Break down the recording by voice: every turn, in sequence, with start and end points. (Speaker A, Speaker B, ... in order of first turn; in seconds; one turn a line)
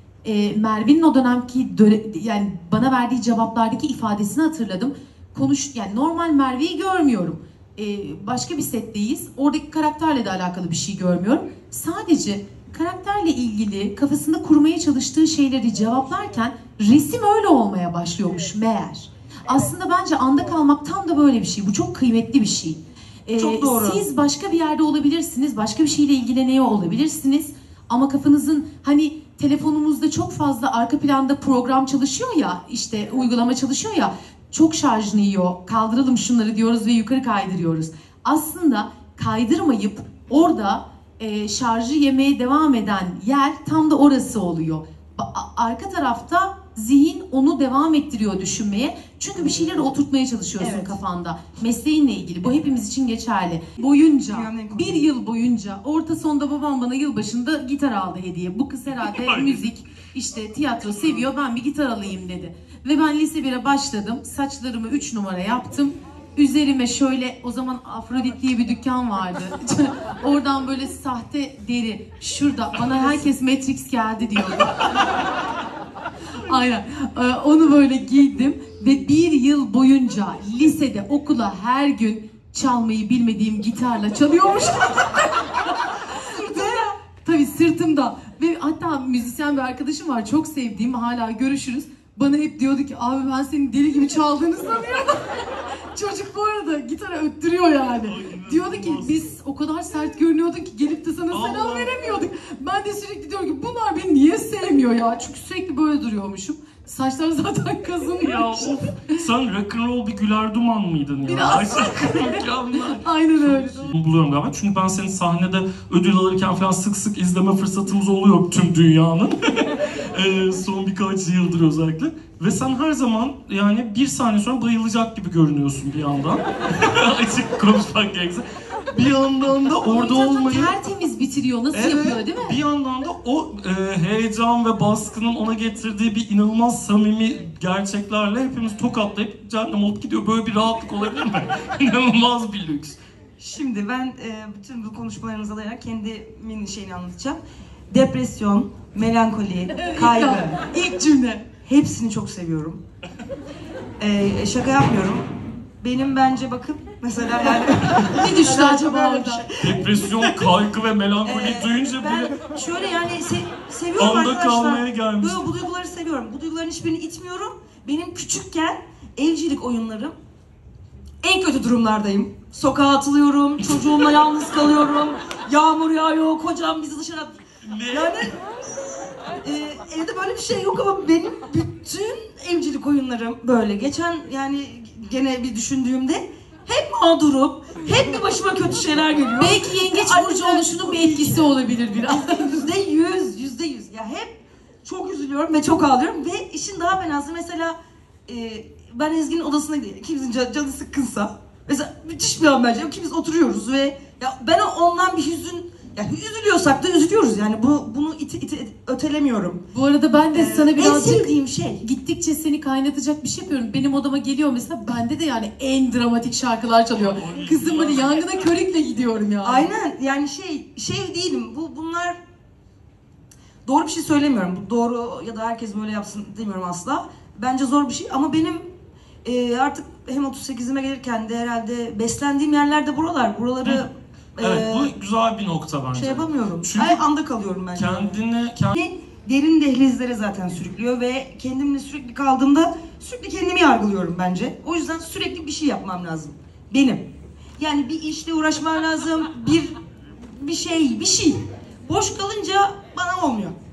Speaker A: 0.2-74.9
Speaker B: 23.4-24.0
Speaker B: 50.6-51.0
Speaker B: 54.3-55.1
Speaker C: 59.0-59.7
Speaker A: 76.4-109.2
Speaker B: 86.2-86.9
Speaker C: 98.0-99.2
Speaker C: 101.3-102.2
Speaker C: 108.2-130.8
Speaker A: 111.3-113.9
Speaker A: 129.8-132.6
Speaker C: 131.7-143.0
Speaker B: 143.4-147.4
Speaker B: 147.9-150.6
Speaker A: 149.8-151.5
Speaker B: 151.6-152.8
Speaker B: 154.0-155.3
Speaker B: 155.8-160.5
Speaker A: 158.0-159.5
Speaker C: 159.6-162.3
Speaker B: 161.2-170.1
Speaker C: 164.0-165.4
Speaker B: 171.2-177.4
Speaker C: 173.6-173.9
Speaker C: 177.6-178.3
Speaker B: 177.9-178.3
Speaker B: 179.4-197.8
Speaker A: 189.4-192.7
Speaker B: 198.3-209.6
Speaker A: 209.7-219.7
Speaker B: 210.3-211.8
Speaker C: 216.9-218.5
Speaker B: 219.4-222.2
Speaker B: 223.7-228.7
Speaker B: 229.2-234.9
Speaker C: 234.4-237.0
Speaker B: 235.9-238.2
Speaker C: 237.7-238.8
Speaker B: 238.7-247.1
Speaker B: 247.6-249.7
Speaker B: 250.3-253.6